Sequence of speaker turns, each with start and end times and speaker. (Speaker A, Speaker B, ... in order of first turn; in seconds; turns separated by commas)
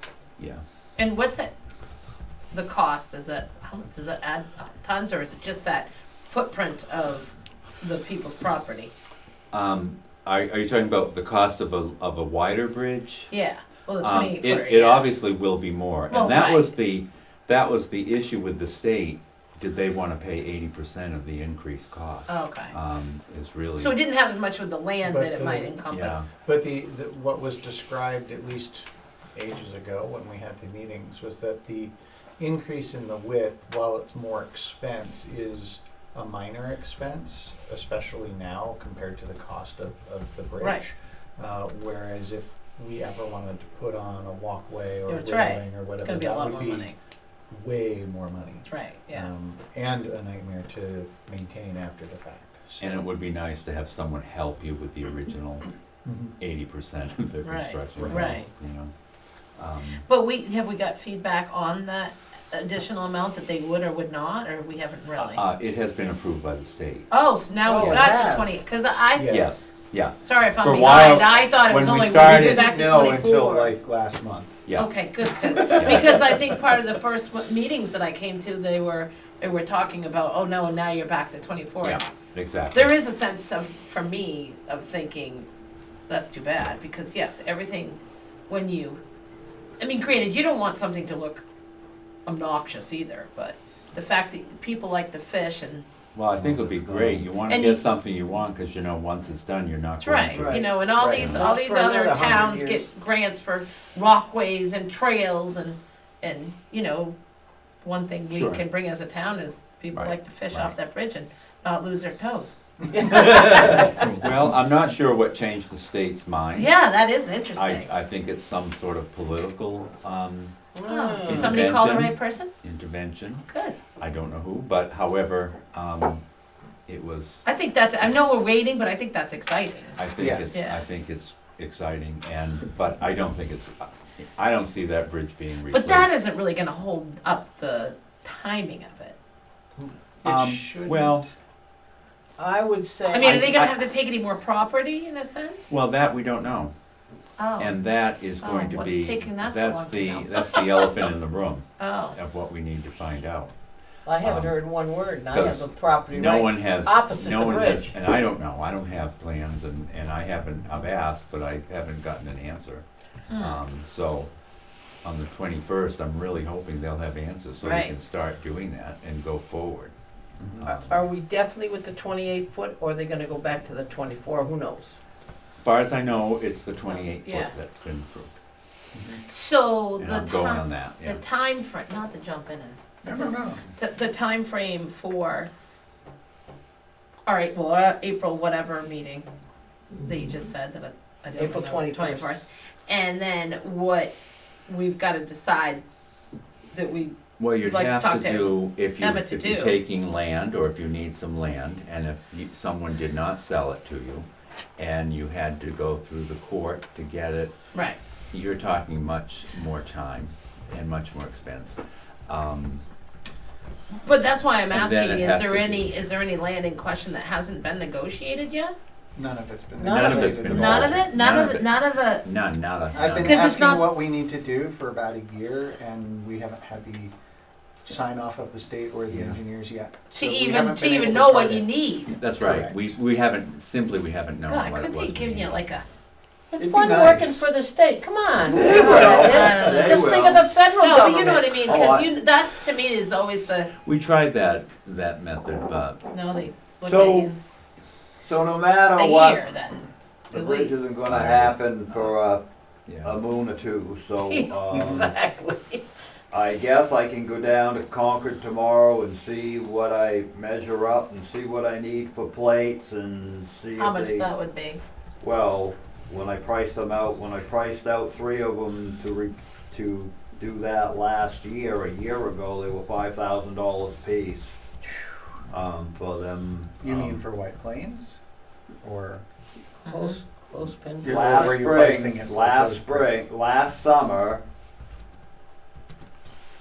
Speaker A: 1.0-1.5, Speaker A: 2.5-8.9, Speaker B: 9.5-13.3, Speaker A: 13.3-15.1, Speaker B: 14.0-24.0, Speaker A: 16.1-16.7, Speaker A: 22.3-22.8, Speaker A: 23.8-26.3, Speaker C: 25.0-46.9, Speaker B: 25.9-26.3, Speaker A: 45.1-47.0, Speaker C: 47.5-53.0, Speaker A: 48.6-49.3, Speaker B: 52.8-55.7, Speaker C: 56.0-56.3, Speaker B: 56.4-58.9, Speaker A: 57.4-58.5, Speaker C: 58.0-58.4, Speaker B: 59.5-60.0, Speaker A: 60.0-65.4, Speaker B: 65.2-67.1, Speaker A: 67.1-69.5, Speaker D: 67.7-68.6, Speaker B: 67.8-68.1, Speaker C: 69.2-69.5, Speaker B: 69.2-72.6, Speaker A: 70.2-73.7, Speaker C: 72.0-74.7, Speaker B: 74.7-74.9, Speaker A: 74.7-82.0, Speaker C: 75.4-76.2, Speaker B: 75.7-76.2, Speaker B: 81.8-82.9, Speaker A: 82.7-85.5, Speaker A: 86.1-89.0, Speaker A: 89.8-91.5, Speaker A: 92.2-95.8, Speaker B: 96.1-101.5, Speaker C: 96.4-97.2, Speaker A: 97.5-97.8, Speaker A: 100.0-107.2, Speaker D: 100.3-102.8, Speaker A: 107.8-113.8, Speaker B: 108.3-108.6, Speaker B: 109.9-110.7, Speaker B: 113.0-116.7, Speaker A: 116.5-117.9, Speaker B: 117.5-120.5, Speaker D: 120.7-121.6, Speaker A: 120.8-122.5, Speaker B: 121.2-123.4, Speaker A: 123.5-123.8, Speaker B: 124.0-126.2, Speaker B: 126.9-127.4, Speaker A: 127.4-130.0, Speaker B: 130.0-136.1, Speaker C: 130.2-130.5, Speaker A: 130.5-130.8, Speaker A: 135.7-139.2, Speaker C: 139.8-141.3, Speaker B: 140.2-141.3, Speaker D: 142.4-143.6, Speaker A: 143.1-145.7, Speaker B: 143.2-143.7, Speaker B: 145.7-146.7, Speaker A: 147.4-147.8, Speaker B: 147.6-153.5, Speaker A: 148.4-150.9, Speaker A: 151.8-152.2, Speaker D: 154.1-157.9, Speaker B: 154.2-154.6, Speaker B: 155.3-162.8, Speaker A: 163.3-163.6, Speaker B: 163.4-164.3, Speaker B: 165.0-169.9, Speaker A: 167.6-167.9, Speaker C: 170.4-170.7, Speaker B: 170.6-171.0, Speaker D: 170.6-174.9, Speaker B: 175.6-178.3, Speaker A: 176.7-177.5, Speaker C: 178.9-179.2, Speaker A: 179.3-185.5, Speaker B: 180.0-181.2, Speaker C: 183.0-183.7, Speaker A: 187.3-189.3, Speaker A: 189.9-194.1, Speaker D: 191.3-192.3, Speaker A: 194.7-195.8, Speaker A: 196.7-199.8, Speaker B: 197.4-204.2, Speaker B: 204.8-207.5, Speaker B: 208.3-212.8, Speaker A: 214.0-218.7, Speaker B: 214.7-215.9, Speaker C: 219.1-221.1, Speaker D: 219.8-220.6, Speaker B: 219.8-223.5, Speaker A: 220.5-222.2, Speaker C: 222.9-227.1, Speaker A: 223.2-223.9, Speaker C: 227.7-231.8, Speaker B: 229.1-229.4, Speaker A: 230.1-232.1, Speaker B: 232.1-235.6, Speaker C: 232.4-232.8, Speaker A: 234.4-235.8, Speaker D: 236.5-241.8, Speaker C: 236.6-237.5, Speaker E: 238.5-240.5, Speaker C: 239.0-239.3, Speaker A: 239.6-240.0, Speaker A: 240.8-243.7, Speaker E: 241.6-242.1, Speaker B: 243.8-246.0, Speaker A: 246.1-247.3, Speaker E: 246.8-247.4, Speaker E: 248.2-249.5, Speaker A: 248.9-250.9, Speaker E: 250.3-252.4, Speaker B: 251.1-251.6, Speaker B: 252.9-253.2, Speaker E: 253.0-255.1, Speaker D: 254.2-255.8, Speaker E: 256.3-264.3, Speaker A: 263.8-264.8, Speaker E: 265.2-274.5, Speaker E: 275.5-277.2, Speaker C: 276.8-278.2, Speaker C: 278.8-279.2, Speaker D: 279.8-281.5, Speaker C: 281.0-283.2, Speaker E: 281.0-284.4